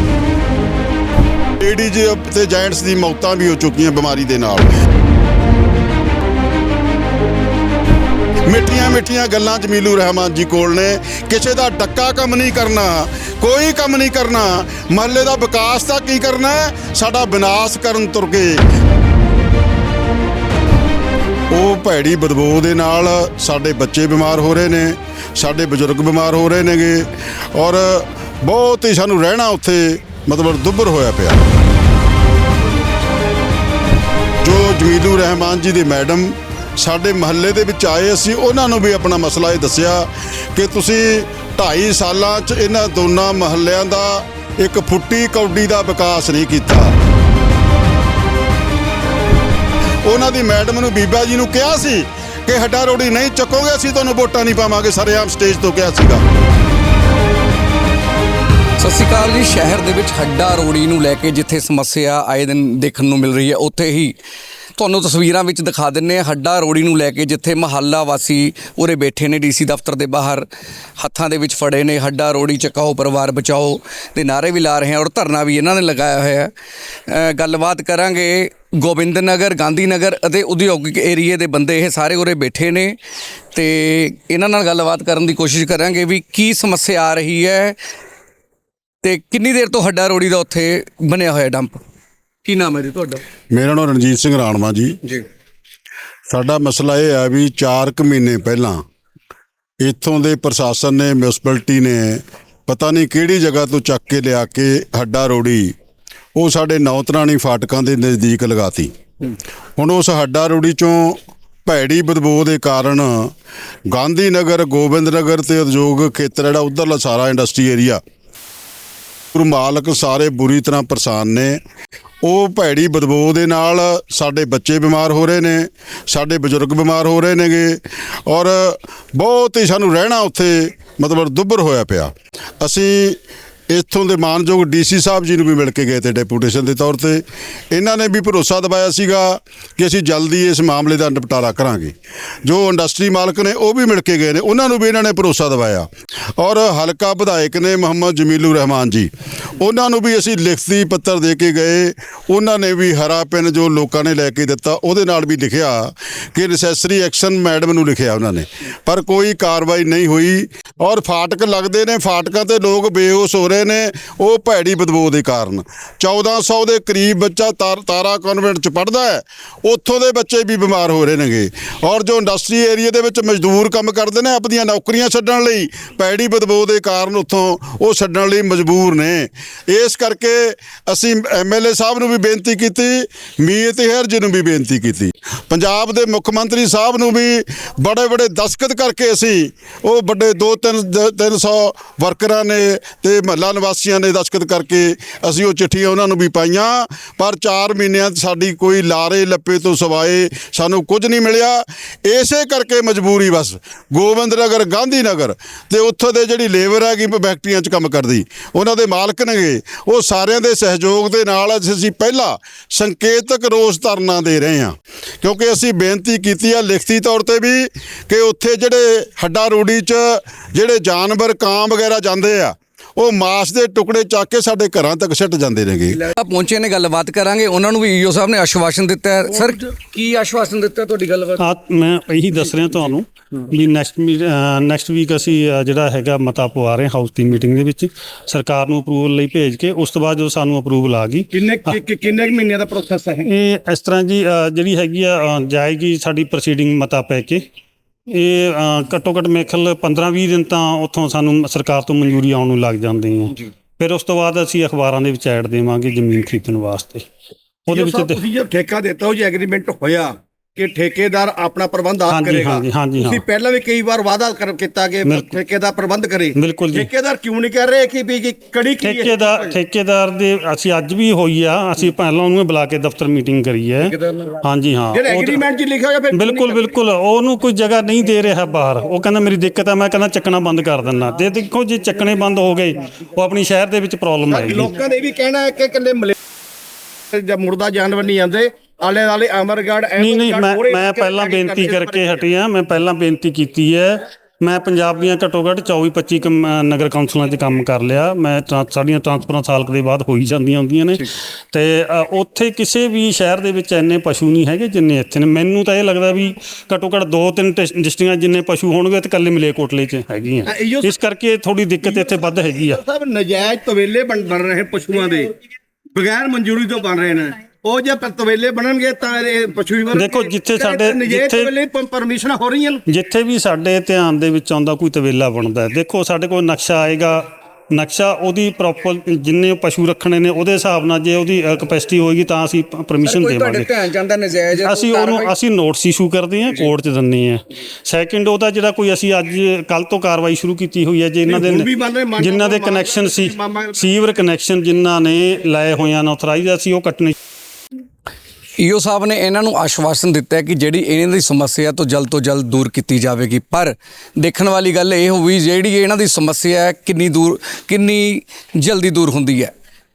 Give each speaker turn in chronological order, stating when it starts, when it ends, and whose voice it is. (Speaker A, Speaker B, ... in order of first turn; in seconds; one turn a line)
Speaker A: 1.6-4.7
Speaker A: 8.5-18.6
Speaker A: 21.5-31.4
Speaker A: 34.4-46.9
Speaker A: 50.0-56.2
Speaker B: 58.8-64.1
Speaker B: 64.8-70.5
Speaker B: 71.0-76.5
Speaker B: 77.1-83.0
Speaker B: 83.5-87.8
Speaker B: 89.0-91.8
Speaker B: 92.4-93.2
Speaker A: 93.5-95.0
Speaker A: 96.3-98.8
Speaker A: 99.8-105.7
Speaker A: 106.3-108.9
Speaker A: 109.8-113.3
Speaker A: 113.9-118.0
Speaker A: 119.3-121.6
Speaker A: 122.2-226.0
Speaker B: 225.9-231.4
Speaker C: 231.4-241.7
Speaker D: 241.3-243.3
Speaker C: 243.2-247.4
Speaker C: 248.1-257.1
Speaker C: 257.7-258.2
Speaker D: 257.7-269.5
Speaker C: 262.1-263.2
Speaker C: 265.1-265.4
Speaker C: 266.3-266.9
Speaker C: 268.8-275.4
Speaker D: 274.9-276.6
Speaker C: 276.1-284.7
Speaker D: 284.3-286.1
Speaker D: 287.1-292.2
Speaker C: 290.0-312.8
Speaker D: 310.4-310.9
Speaker D: 312.5-315.3
Speaker D: 315.9-322.8
Speaker C: 319.9-321.5
Speaker C: 322.9-333.7
Speaker B: 333.0-335.3
Speaker C: 334.5-347.1
Speaker D: 341.3-343.9
Speaker B: 348.6-359.5